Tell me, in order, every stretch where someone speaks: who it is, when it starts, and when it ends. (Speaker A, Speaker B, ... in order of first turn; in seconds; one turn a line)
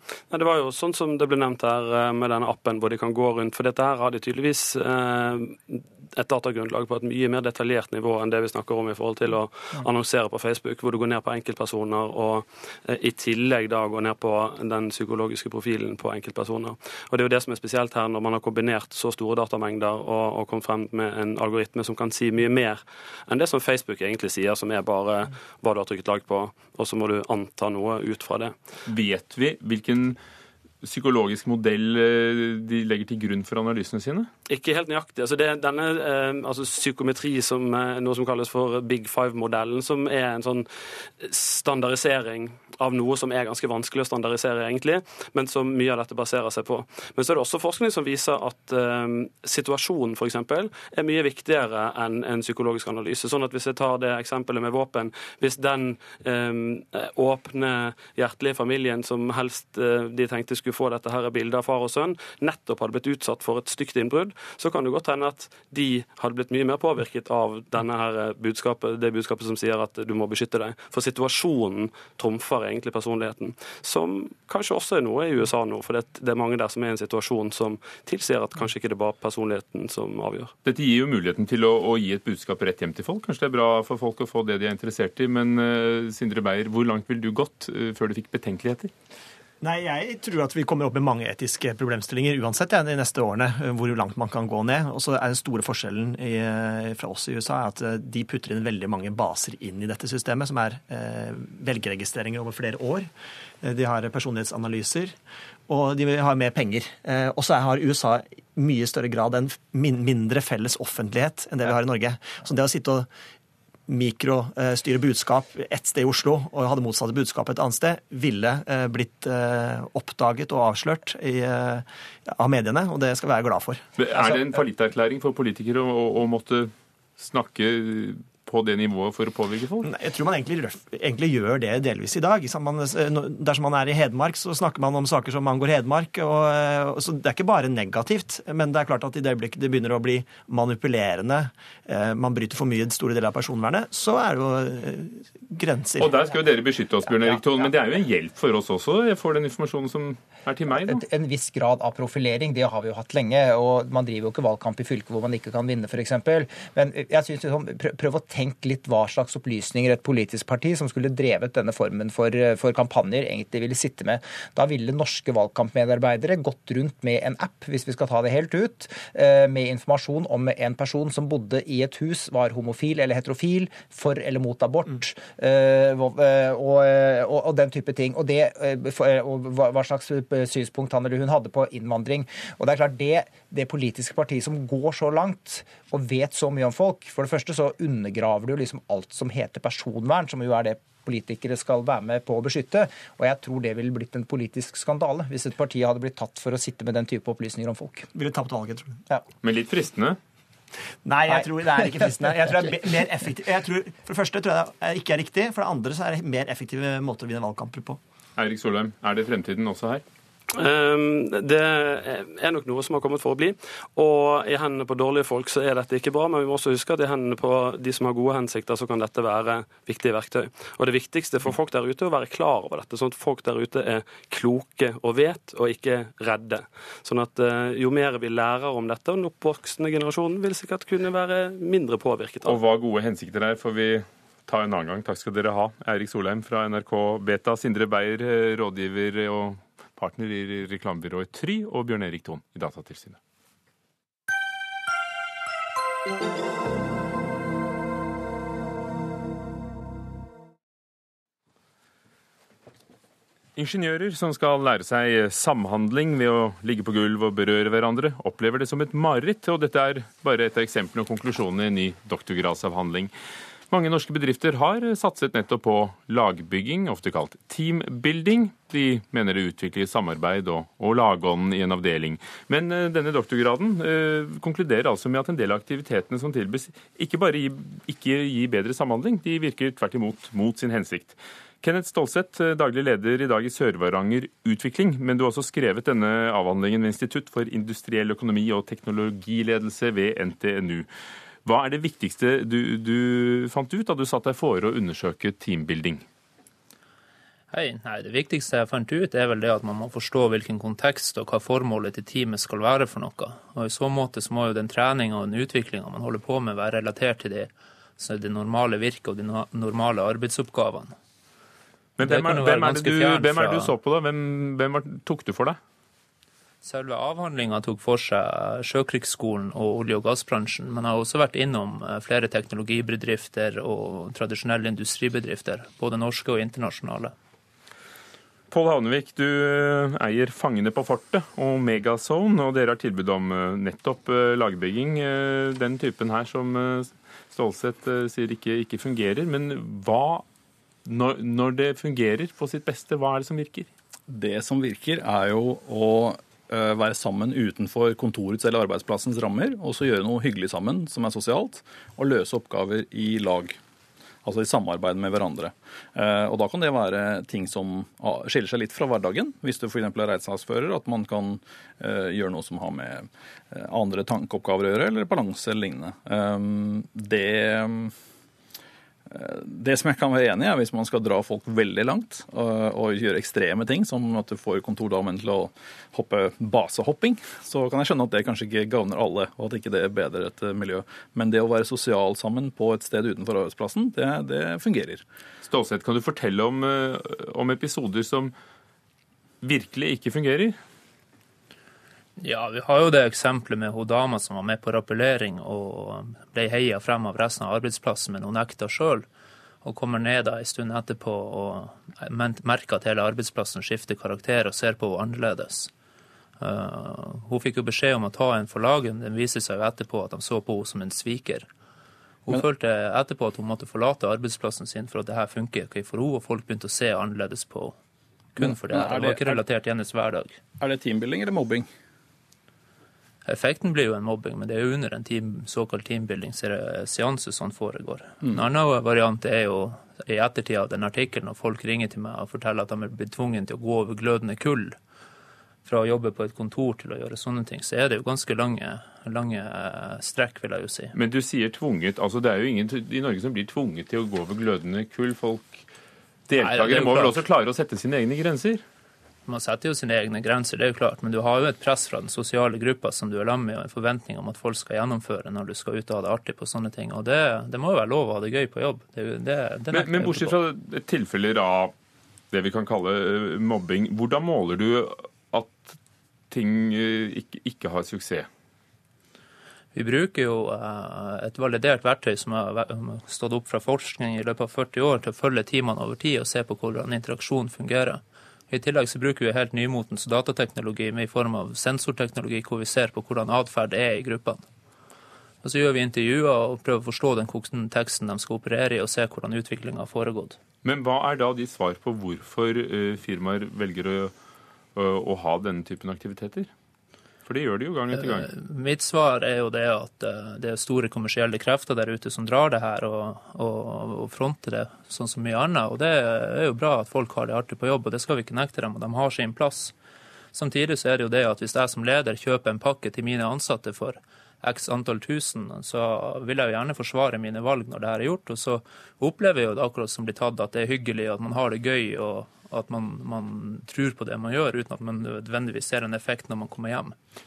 Speaker A: 0.3-28.6
Speaker B: 28.9-30.2
Speaker B: 30.8-34.3
Speaker A: 34.5-80.5
Speaker B: 80.6-88.9
Speaker C: 89.6-103.1
Speaker C: 103.6-105.2
Speaker C: 105.7-113.1
Speaker C: 113.9-123.9
Speaker B: 124.0-129.9
Speaker C: 129.8-146.3
Speaker B: 146.0-151.0
Speaker D: 150.7-198.1
Speaker C: 198.2-199.0
Speaker B: 199.4-200.2
Speaker C: 201.1-208.0
Speaker B: 208.4-210.0
Speaker A: 210.5-232.6
Speaker B: 232.4-243.2
Speaker B: 253.6-263.1
Speaker B: 263.7-290.9
Speaker B: 291.4-296.0
Speaker E: 297.5-310.9
Speaker B: 312.0-315.6
Speaker E: 312.0-313.7
Speaker E: 316.6-327.1
Speaker B: 328.5-340.2
Speaker B: 340.9-343.7
Speaker F: 344.1-353.6
Speaker F: 354.2-367.9
Speaker F: 369.1-385.0
Speaker B: 385.4-388.3
Speaker B: 389.4-390.6
Speaker E: 392.2-399.1
Speaker E: 399.6-405.7
Speaker E: 406.4-411.5
Speaker E: 412.3-417.8
Speaker E: 418.4-420.4
Speaker F: 418.4-419.4
Speaker F: 420.6-421.7
Speaker E: 423.3-434.8
Speaker E: 435.6-440.9
Speaker B: 440.9-445.6
Speaker B: 446.3-448.6
Speaker E: 446.3-447.2
Speaker E: 449.3-460.4
Speaker B: 459.7-461.7
Speaker B: 462.3-465.8
Speaker B: 466.3-468.3
Speaker E: 469.7-484.4
Speaker E: 485.4-490.4
Speaker B: 490.6-494.1
Speaker B: 494.8-496.5
Speaker B: 497.2-498.3
Speaker E: 498.1-509.7
Speaker E: 510.3-527.0